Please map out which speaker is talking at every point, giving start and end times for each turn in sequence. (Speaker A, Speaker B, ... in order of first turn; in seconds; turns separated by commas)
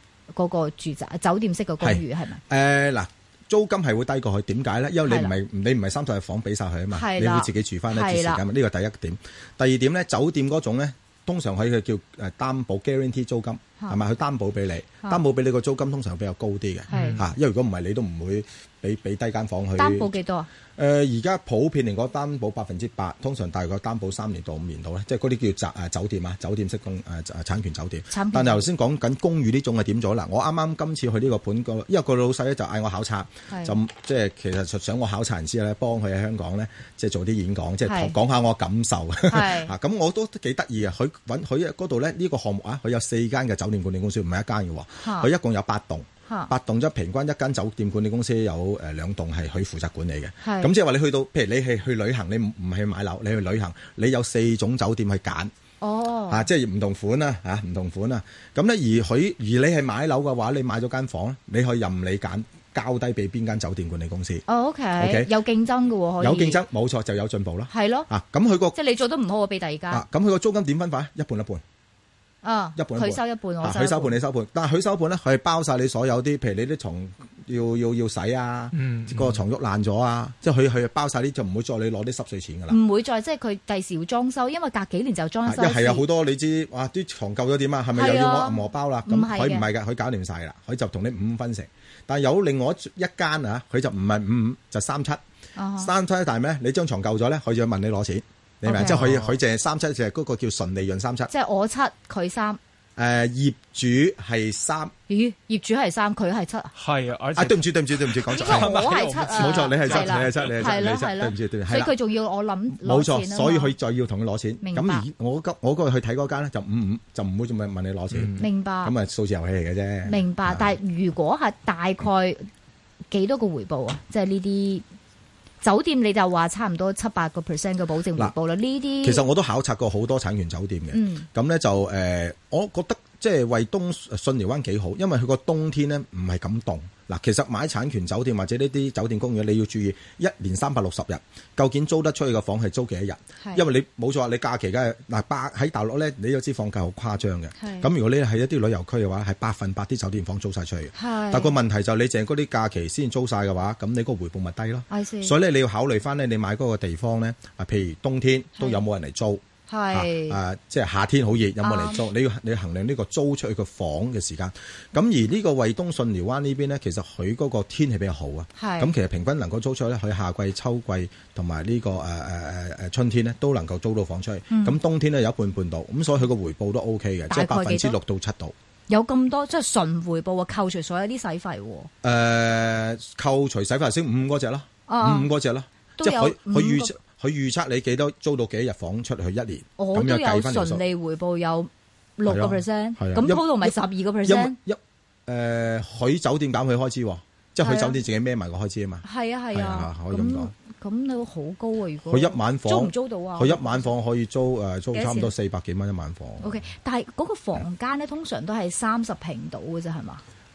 Speaker A: 0.3-2.4, Speaker B: 1.8-20.1, Speaker A: 5.0-5.3, Speaker A: 6.9-8.4, Speaker A: 16.9-17.2, Speaker C: 16.9-17.2, Speaker A: 19.8-20.5, Speaker B: 20.8-55.5, Speaker A: 28.1-28.6, Speaker A: 33.5-33.7, Speaker A: 37.8-38.1, Speaker A: 39.3-39.7, Speaker A: 45.0-45.3, Speaker A: 50.4-50.7, Speaker A: 55.8-56.5, Speaker B: 56.3-64.4, Speaker A: 64.5-66.6, Speaker B: 65.0-65.3, Speaker B: 66.2-68.8, Speaker A: 67.7-68.1, Speaker A: 68.7-70.0, Speaker B: 69.9-71.6, Speaker A: 72.4-74.2, Speaker B: 72.8-82.8, Speaker C: 78.7-79.4, Speaker A: 82.7-86.0, Speaker B: 85.5-95.2, Speaker A: 87.9-89.7, Speaker A: 95.5-95.9, Speaker B: 95.8-101.3, Speaker A: 98.6-99.0, Speaker C: 98.8-99.3, Speaker A: 101.3-102.6, Speaker B: 103.0-104.9, Speaker A: 105.1-106.7, Speaker C: 106.8-110.8, Speaker B: 107.3-111.9, Speaker A: 108.3-113.7, Speaker B: 112.8-120.7, Speaker A: 114.6-115.0, Speaker C: 118.1-118.4, Speaker A: 118.4-118.9, Speaker A: 120.0-122.5, Speaker A: 123.1-124.8, Speaker A: 125.6-129.2, Speaker B: 129.0-178.5, Speaker A: 130.9-131.2, Speaker A: 147.6-147.9, Speaker A: 150.9-151.5, Speaker A: 154.9-155.3, Speaker A: 159.7-160.4, Speaker A: 161.6-162.1, Speaker A: 168.6-168.9, Speaker A: 174.5-174.8, Speaker A: 177.3-178.0, Speaker A: 178.9-181.9, Speaker B: 182.0-190.8, Speaker A: 184.9-185.3, Speaker A: 186.0-186.9, Speaker A: 189.8-194.6, Speaker B: 192.2-200.5, Speaker A: 197.6-198.0, Speaker A: 199.0-203.9, Speaker B: 202.1-206.6, Speaker A: 204.9-205.3, Speaker A: 206.4-210.2